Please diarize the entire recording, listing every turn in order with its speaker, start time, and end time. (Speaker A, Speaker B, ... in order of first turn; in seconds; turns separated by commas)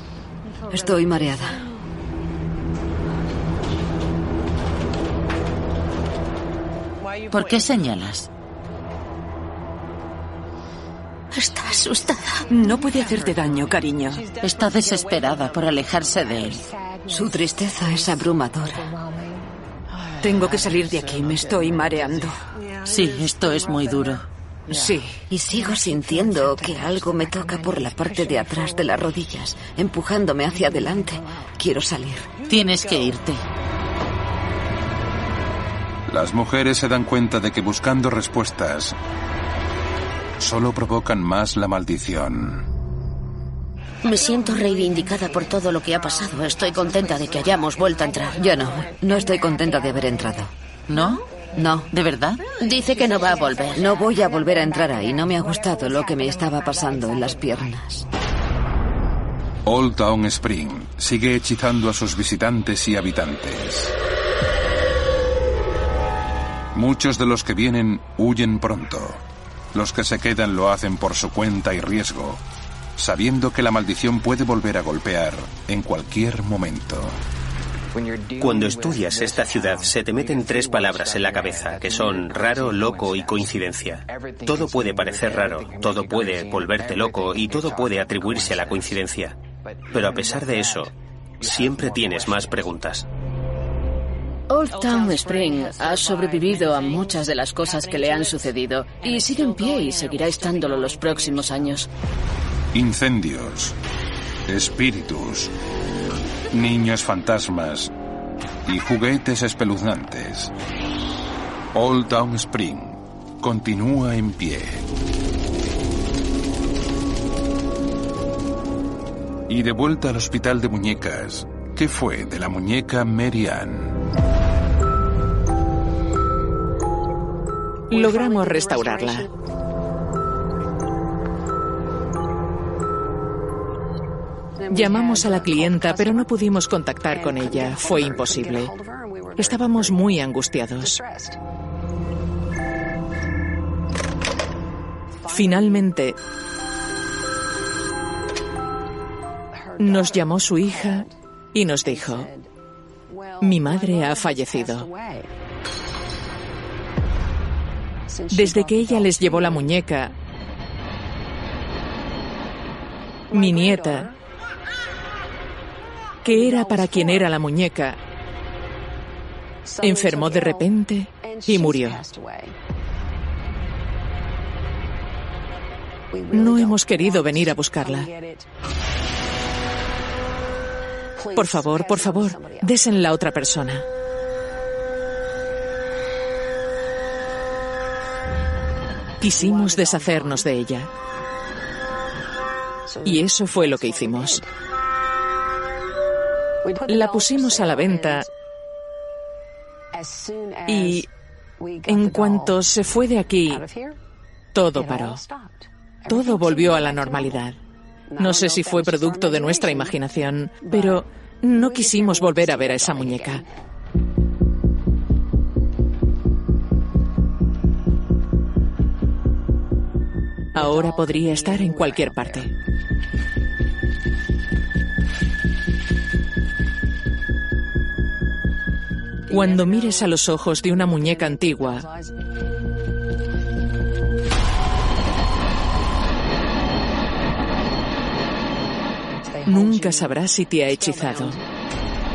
Speaker A: 0.7-1.6, Speaker B: 7.3-8.3, Speaker C: 11.3-12.4, Speaker D: 12.5-14.2, Speaker B: 14.4-16.6, Speaker A: 17.1-18.9, Speaker D: 20.2-22.4, Speaker B: 22.8-24.2, Speaker D: 24.7-25.2, Speaker A: 25.3-32.3, Speaker B: 32.5-33.4, Speaker E: 36.1-39.0, Speaker E: 40.4-42.6, Speaker C: 44.0-48.4, Speaker A: 48.4-50.5, Speaker B: 50.9-51.2, Speaker A: 51.5-51.9, Speaker B: 51.9-52.4, Speaker C: 52.6-53.9, Speaker A: 53.7-58.0, Speaker E: 59.6-63.9, Speaker E: 66.7-69.2, Speaker E: 69.7-72.4, Speaker E: 73.0-77.2, Speaker F: 78.4-89.4, Speaker F: 89.9-93.0, Speaker G: 94.5-101.9, Speaker E: 102.7-103.8, Speaker E: 104.5-105.5, Speaker E: 106.5-107.9, Speaker E: 108.7-110.5, Speaker E: 111.7-114.8, Speaker E: 119.5-124.0, Speaker H: 127.9-129.3, Speaker H: 134.7-138.7, Speaker H: 139.4-141.0, Speaker H: 145.3-146.2, Speaker H: 149.8-152.3, Speaker H: 153.4-154.9, Speaker H: 158.3-160.1, Speaker H: 163.3-164.1, Speaker H: 166.2-167.9, Speaker H: 169.8-172.0, Speaker H: 176.3-178.1, Speaker H: 181.3-183.8, Speaker H: 189.2-190.9, Speaker H: 193.0-194.4, Speaker H: 196.8-198.2, Speaker H: 200.7-201.1, Speaker H: 201.8-203.7, Speaker H: 204.5-205.2, Speaker H: 206.1-207.6, Speaker H: 208.2-213.4, Speaker H: 220.5-222.5, Speaker H: 229.3-231.9, Speaker H: 239.4-241.4